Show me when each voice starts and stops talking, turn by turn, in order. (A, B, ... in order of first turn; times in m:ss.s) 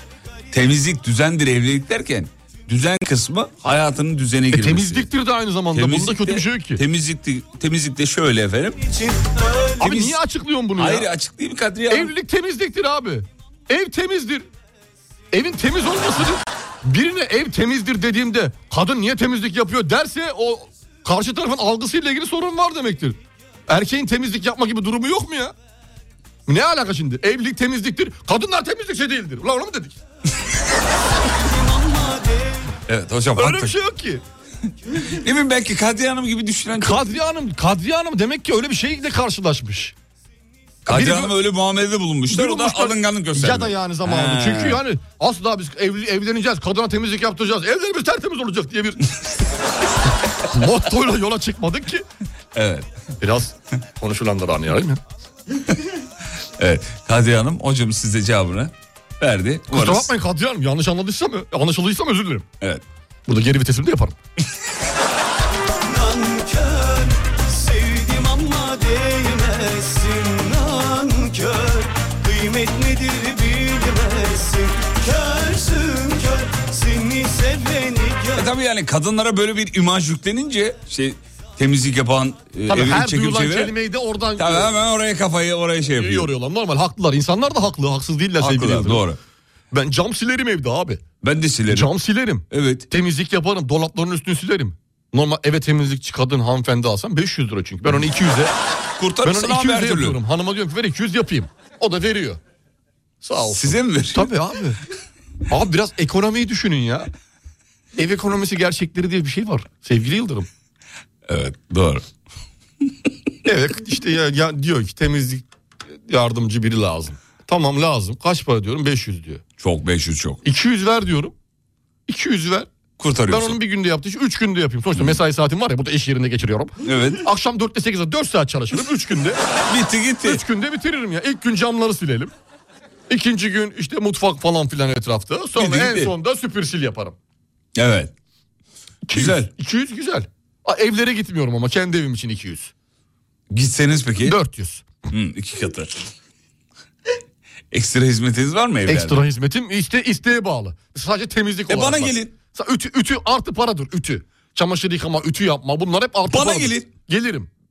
0:00.5-0:05.1 A
0:04.5-0:06.8 B
0:05.7-0:08.8 A
0:08.8-0:09.8 C
0:09.8-0:11.1 B
0:09.8-0:10.2 A
0:10.8-0:12.1 A
0:11.9-0:14.5 B
0:15.3-0:25.5 B
0:26.5-0:30.0 B
0:31.4-0:32.7 C
0:32.9-0:33.7 A
0:33.4-0:34.2 B
0:35.0-0:37.0 A
0:36.8-0:39.9 B
0:40.8-0:44.8 A
0:40.9-0:41.3 B
0:42.3-0:49.0 B
0:50.4-0:52.0 B
0:52.5-0:52.9 A
0:53.2-0:55.0 B
0:56.6-1:00.1 A
0:59.7-1:02.5 B
1:03.3-1:04.2 B
1:05.8-1:18.5 C
1:18.3-1:23.7 A
1:22.7-1:24.7 B
1:24.4-1:26.3 A
1:25.9-1:29.0 B
1:28.4-1:29.2 A
1:29.7-1:31.0 B
1:31.2-1:31.9 A
1:31.7-1:38.5 B
1:32.5-1:32.8 A
1:39.0-1:40.2 A
1:39.2-1:42.4 B
1:43.2-1:44.8 B
1:43.5-1:44.3 A
1:45.5-1:47.1 B
1:47.9-1:50.5 B
1:51.3-1:52.0 A
1:53.4-1:55.4 B
1:56.1-1:59.4 B
1:59.6-2:00.4 A
2:00.4-2:01.3 B
2:02.1-2:02.7 B
2:03.0-2:03.5 A
2:03.3-2:09.4 B
2:06.8-2:07.2 A
2:09.7-2:10.4 A
2:10.2-2:12.3 B
2:13.1-2:17.2 B
2:15.6-2:16.1 A
2:17.7-2:18.1 A
2:19.1-2:22.7 B
2:19.1-2:19.5 A
2:23.5-2:24.3 A
2:24.2-2:25.0 B
2:25.1-2:26.0 A
2:27.7-2:29.2 A
2:28.8-2:37.5 B
2:31.7-2:32.3 A
2:36.3-2:36.9 A